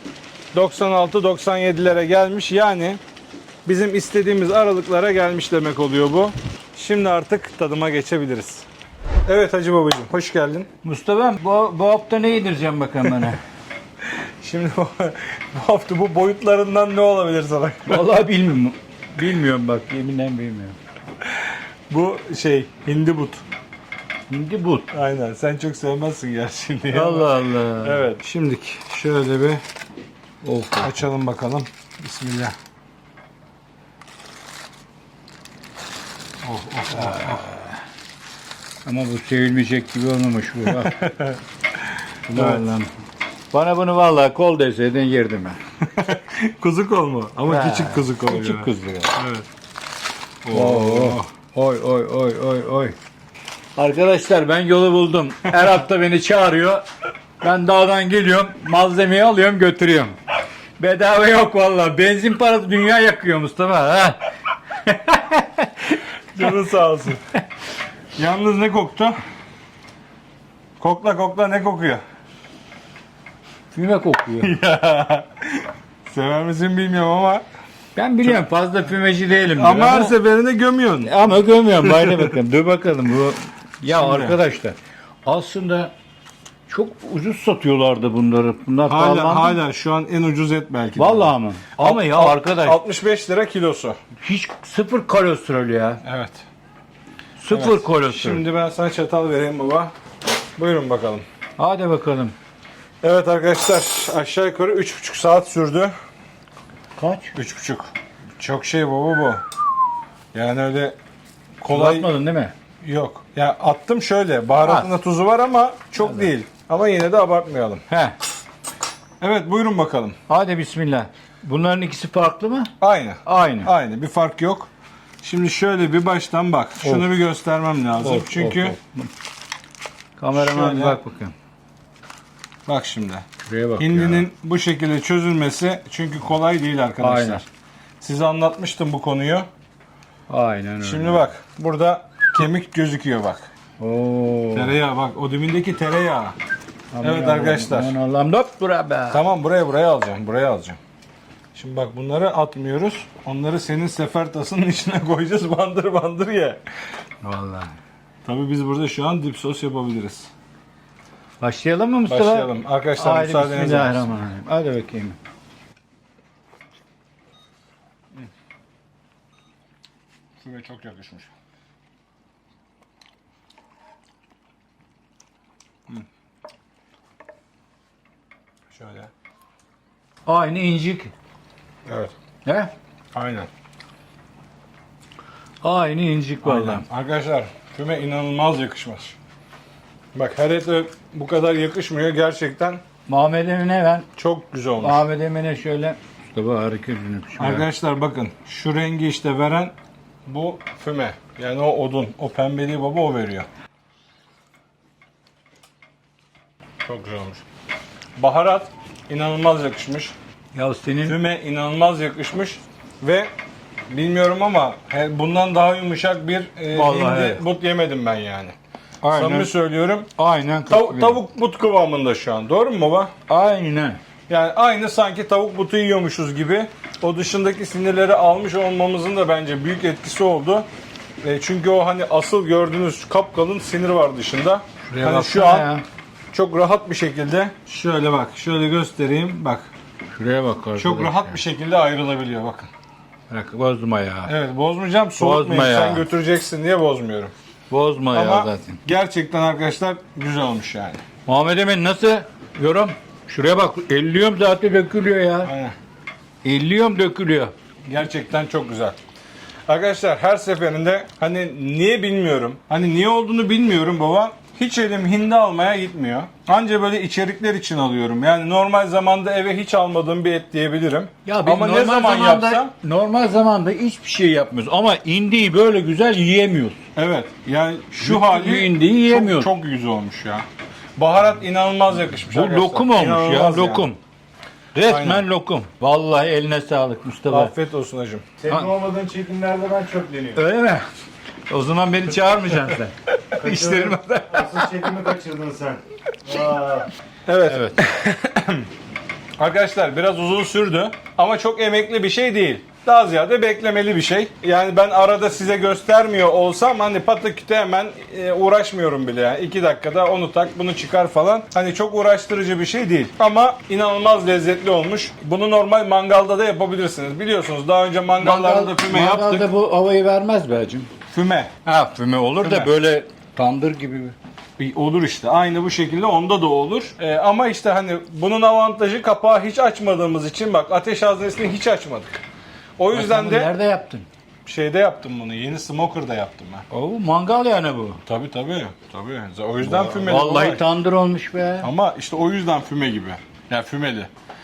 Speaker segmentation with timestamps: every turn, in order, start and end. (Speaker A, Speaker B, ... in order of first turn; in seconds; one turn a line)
Speaker A: 0.5-3.0
Speaker A: 3.7-8.7
Speaker A: 9.3-10.7
Speaker B: 10.8-13.4
Speaker A: 14.1-18.0
Speaker B: 17.9-20.8
Speaker A: 21.3-23.4
Speaker B: 24.3-24.9
Speaker A: 24.9-29.6
Speaker B: 26.9-28.1
Speaker B: 30.4-31.0
Speaker A: 30.8-32.5
Speaker A: 36.4-37.5
Speaker B: 36.9-37.8
Speaker B: 38.9-41.0
Speaker A: 40.9-41.4
Speaker A: 42.3-42.6
Speaker B: 42.3-42.9
Speaker B: 43.5-45.6
Speaker A: 45.9-49.5
Speaker B: 47.5-49.2
Speaker A: 50.4-51.3
Speaker B: 50.5-53.0
Speaker B: 53.8-56.8
Speaker B: 57.4-60.2
Speaker B: 60.8-66.6
Speaker A: 66.3-67.2
Speaker A: 68.2-69.2
Speaker A: 70.8-72.0
Speaker B: 73.7-74.5
Speaker A: 74.4-77.4
Speaker B: 78.0-80.2
Speaker A: 79.6-81.2
Speaker B: 81.0-85.9
Speaker A: 81.8-82.3
Speaker A: 83.9-84.4
Speaker B: 86.7-89.6
Speaker A: 88.9-94.0
Speaker B: 91.0-92.8
Speaker B: 94.2-96.0
Speaker A: 96.0-96.5
Speaker B: 97.4-98.4
Speaker A: 97.5-99.9
Speaker A: 100.6-101.2
Speaker B: 101.6-102.3
Speaker A: 103.0-105.9
Speaker B: 107.0-107.3
Speaker A: 107.3-109.4
Speaker A: 110.3-111.0
Speaker A: 111.6-112.1
Speaker B: 111.7-112.5
Speaker A: 112.8-117.9
Speaker B: 114.6-114.9
Speaker B: 116.0-116.3
Speaker B: 117.9-118.2
Speaker A: 119.2-120.2
Speaker B: 120.3-122.7
Speaker A: 122.8-124.7
Speaker B: 123.2-123.7
Speaker A: 125.2-128.8
Speaker B: 126.8-127.1
Speaker B: 128.0-129.1
Speaker B: 130.2-131.3
Speaker A: 130.3-131.0
Speaker A: 132.7-137.4
Speaker B: 133.4-134.3
Speaker B: 137.0-137.4
Speaker A: 138.0-139.5
Speaker B: 140.3-141.3
Speaker A: 140.8-143.5
Speaker B: 143.8-144.8
Speaker A: 144.5-146.4
Speaker B: 146.9-149.2
Speaker A: 147.0-148.0
Speaker A: 149.1-150.8
Speaker A: 151.6-156.6
Speaker B: 157.2-157.8
Speaker A: 158.2-160.3
Speaker B: 161.4-165.2
Speaker A: 162.1-164.2
Speaker A: 170.4-171.3
Speaker A: 178.7-179.1
Speaker B: 180.3-181.1
Speaker A: 181.9-182.1
Speaker B: 182.4-182.7
Speaker A: 183.2-183.5
Speaker B: 185.6-186.8
Speaker A: 186.4-189.2
Speaker A: 190.2-192.8
Speaker B: 193.1-194.1
Speaker A: 194.2-195.0
Speaker B: 194.8-197.7
Speaker A: 197.4-199.7
Speaker A: 200.3-203.5
Speaker A: 206.8-207.4
Speaker A: 208.2-210.2
Speaker B: 210.5-211.2
Speaker A: 211.1-213.3
Speaker A: 213.9-218.6
Speaker B: 216.7-217.4
Speaker B: 219.0-219.5
Speaker A: 219.1-220.1
Speaker B: 220.2-221.2
Speaker A: 220.7-223.1
Speaker B: 223.3-224.0
Speaker A: 224.3-230.7
Speaker A: 231.2-235.7
Speaker B: 234.9-235.8
Speaker A: 236.3-239.7
Speaker B: 240.2-241.4
Speaker A: 240.8-242.7
Speaker B: 243.3-244.3
Speaker A: 244.3-247.3
Speaker B: 245.2-246.1
Speaker B: 247.7-248.8
Speaker A: 248.1-251.0
Speaker B: 251.3-255.5
Speaker A: 255.4-255.8
Speaker B: 256.4-257.5
Speaker A: 257.9-259.0
Speaker A: 259.7-272.7
Speaker B: 271.3-276.8
Speaker A: 276.9-280.5
Speaker B: 278.0-279.5
Speaker A: 281.0-283.9
Speaker B: 282.3-284.0
Speaker B: 284.7-287.5
Speaker A: 284.9-285.2
Speaker A: 287.3-288.3
Speaker C: 288.4-290.4
Speaker B: 290.4-290.9
Speaker B: 291.5-294.9
Speaker C: 293.4-296.9
Speaker A: 297.3-298.7
Speaker B: 297.4-297.8
Speaker A: 299.4-319.5
Speaker B: 318.2-320.9
Speaker A: 321.1-321.6
Speaker B: 321.7-324.2
Speaker A: 322.4-322.7
Speaker A: 324.6-332.2
Speaker A: 332.8-333.5
Speaker B: 332.9-334.1
Speaker A: 334.5-336.7
Speaker B: 336.7-338.0
Speaker A: 338.1-340.6
Speaker B: 339.6-341.7
Speaker A: 341.6-344.1